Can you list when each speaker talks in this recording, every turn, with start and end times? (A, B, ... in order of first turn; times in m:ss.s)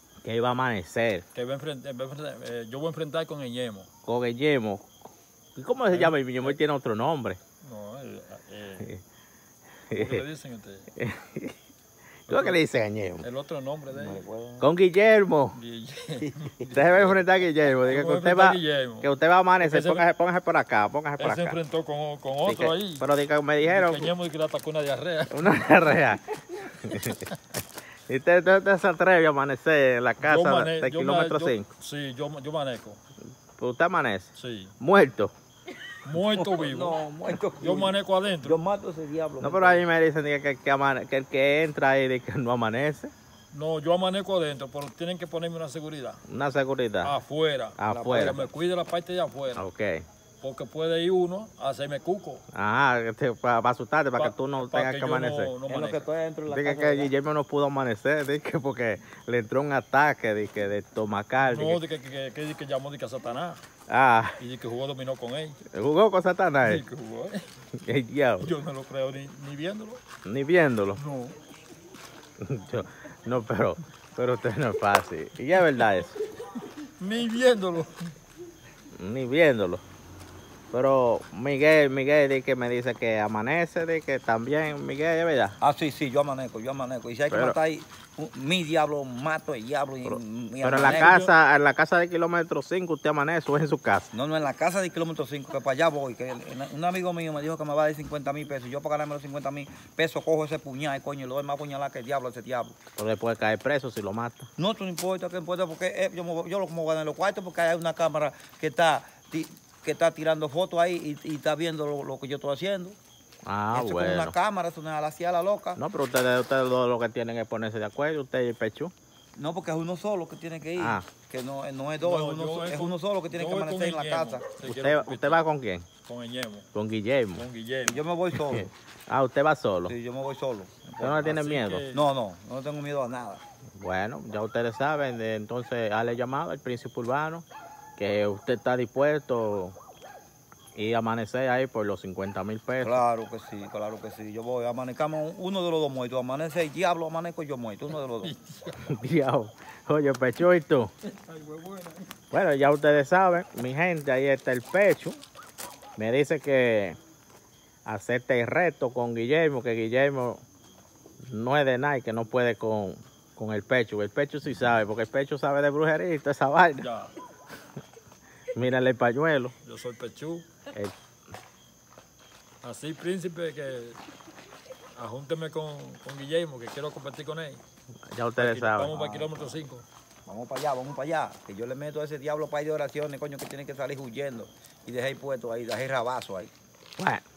0:00.2-0:01.2 A
0:01.4-0:03.9 B
0:04.0-0:04.9 A
0:05.6-0:07.4 A
0:05.9-0:06.6 B
0:07.6-0:08.9 B
0:09.9-0:10.2 A
0:09.9-0:10.9 B
0:11.0-0:11.6 A
0:12.3-0:12.6 B
0:12.3-0:13.3 A
0:13.2-0:14.2 B
0:13.9-0:14.7 C
0:14.6-0:15.6 A
0:15.5-0:20.1 B
0:16.7-0:21.6 A
0:21.2-0:23.1 B
0:22.4-0:24.1 A
0:23.6-0:25.7 B
0:25.3-0:27.2 A
0:26.9-0:27.1 B
0:28.1-0:31.7 A
0:30.2-0:33.0 B
0:33.6-0:35.3 A
0:34.4-0:34.7 B
0:36.0-0:37.0 B
0:36.3-0:39.8 C
0:37.6-0:38.6 B
0:39.4-0:43.1 A
0:43.5-0:46.2 B
0:46.3-0:47.1 A
0:47.0-0:49.6 B
0:47.8-0:48.4 A
0:47.9-0:48.5 C
0:49.6-0:50.0 A
0:50.4-0:52.4 B
0:52.5-0:55.5 A
0:54.2-0:56.1 B
0:55.7-0:57.1 C
0:56.5-1:01.8 A
1:01.5-1:03.6 B
1:03.9-1:04.4 A
1:04.4-1:05.6 B
1:05.7-1:06.8 A
1:06.6-1:07.4 B
1:07.8-1:08.5 A
1:08.4-1:10.0 B
1:10.2-1:11.0 A
1:11.0-1:11.4 B
1:12.4-1:16.2 A
1:17.0-1:18.1 B
1:19.0-1:19.8 A
1:20.7-1:25.6 A
1:25.6-1:31.2 C
1:27.3-1:27.6 A
1:30.1-1:34.1 A
1:30.8-1:31.3 B
1:34.1-1:42.8 C
1:43.0-1:44.5 A
1:44.6-1:53.0 C
1:53.5-1:54.3 A
1:53.7-1:55.8 C
1:55.8-1:58.9 A
1:59.4-2:04.5 C
2:00.8-2:01.1 A
2:02.0-2:05.4 B
2:04.6-2:05.9 A
2:06.0-2:06.7 B
2:06.7-2:07.4 A
2:07.3-2:08.0 B
2:07.8-2:08.7 C
2:08.4-2:10.0 A
2:09.9-2:11.4 C
2:11.0-2:11.8 A
2:11.2-2:12.0 B
2:11.9-2:13.4 C
2:13.8-2:17.5 A
2:18.0-2:19.8 A
2:20.8-2:23.0 A
2:22.8-2:28.3 C
2:28.2-2:28.9 B
2:28.8-2:30.9 A
2:31.1-2:32.1 B
2:32.3-2:35.2 A
2:36.0-2:37.0 A
2:37.9-2:40.4 A
2:41.2-2:46.9 A
2:46.8-2:47.1 B
2:48.5-2:49.5 A
2:49.6-2:50.5 B
2:52.6-2:54.0 B
2:55.0-2:57.6 B
2:58.1-2:58.9 A
2:58.4-2:59.8 B
2:58.9-2:59.6 C
3:00.3-3:06.5 C
3:07.0-3:07.2 A